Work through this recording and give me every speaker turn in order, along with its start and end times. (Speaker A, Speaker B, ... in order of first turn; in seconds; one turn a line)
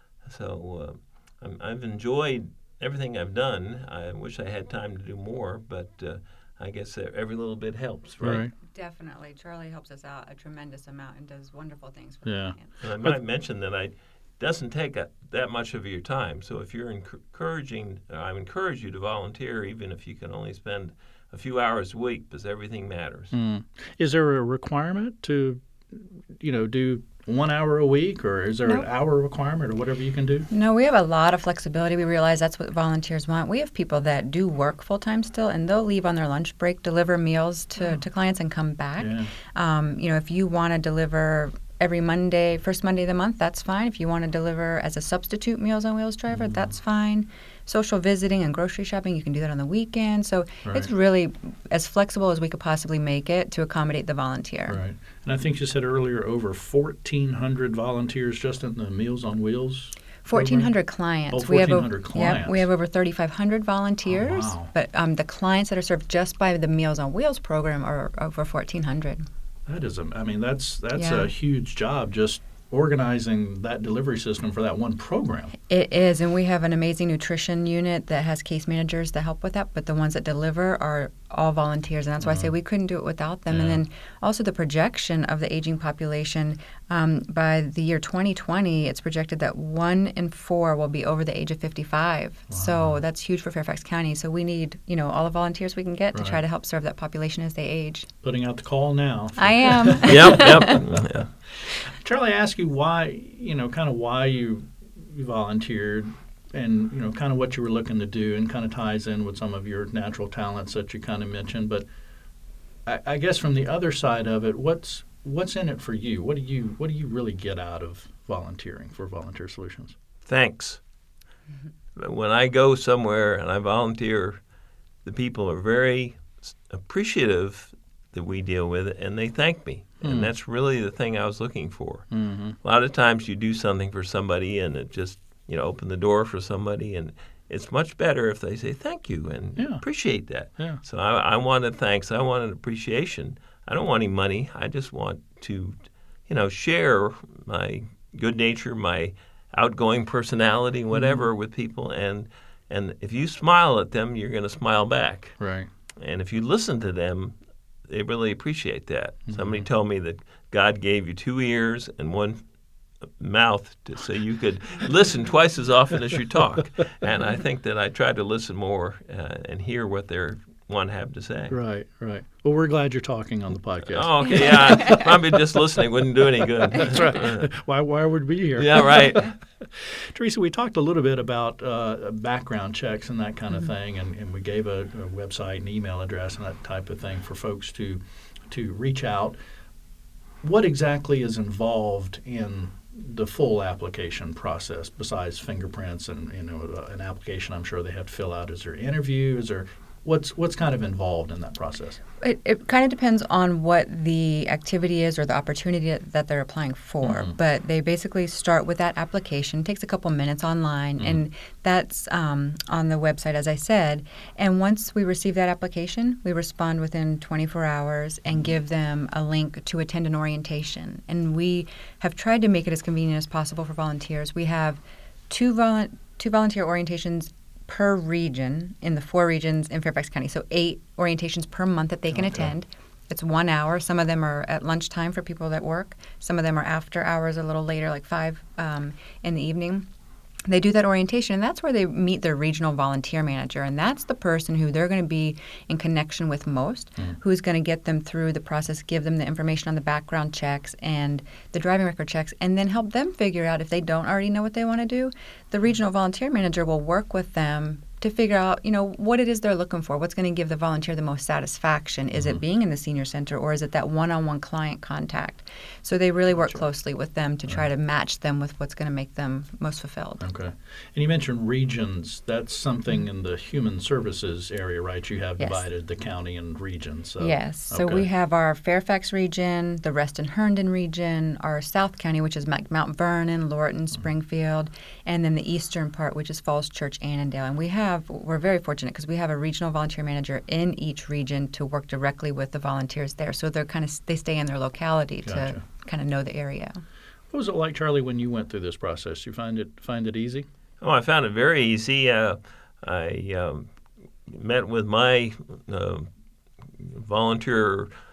Speaker A: 0.2-8.4
Speaker B: 8.2-8.5
Speaker C: 8.6-12.8
Speaker B: 12.2-13.2
Speaker A: 12.8-23.3
Speaker B: 23.3-30.5
Speaker C: 30.5-54.8
Speaker B: 39.0-39.3
Speaker B: 46.3-46.7
Speaker B: 50.6-50.9
Speaker B: 54.7-60.7
Speaker C: 60.2-69.2
Speaker B: 61.3-62.7
Speaker B: 64.0-64.7
Speaker B: 69.7-75.5
Speaker C: 70.9-71.3
Speaker C: 75.7-98.1
Speaker B: 82.2-82.5
Speaker B: 83.5-83.8
Speaker B: 92.5-93.0
Speaker B: 96.1-96.4
Speaker B: 98.2-111.8
Speaker C: 99.4-100.8
Speaker A: 100.1-101.3
Speaker B: 112.8-119.9
Speaker A: 120.2-120.8
Speaker A: 122.0-124.4
Speaker A: 125.0-132.1
Speaker B: 130.0-130.3
Speaker B: 132.1-132.6
Speaker A: 132.6-155.4
Speaker B: 139.6-139.8
Speaker B: 140.6-140.8
Speaker B: 150.9-151.2
Speaker B: 155.4-155.7
Speaker A: 156.0-157.3
Speaker A: 157.9-162.4
Speaker B: 159.3-159.7
Speaker A: 163.2-171.6
Speaker B: 171.5-174.7
Speaker A: 173.9-177.4
Speaker C: 174.4-175.0
Speaker B: 176.7-189.3
Speaker A: 178.6-179.3
Speaker B: 190.4-202.0
Speaker C: 202.2-239.9
Speaker B: 207.0-207.3
Speaker B: 232.1-232.5
Speaker C: 240.5-270.2
Speaker B: 262.1-262.4
Speaker B: 266.3-266.7
Speaker B: 270.2-278.1
Speaker C: 275.4-275.7
Speaker C: 277.2-296.8
Speaker B: 295.2-295.6
Speaker B: 297.3-300.4
Speaker A: 300.8-303.7
Speaker A: 304.3-306.1
Speaker A: 306.8-307.9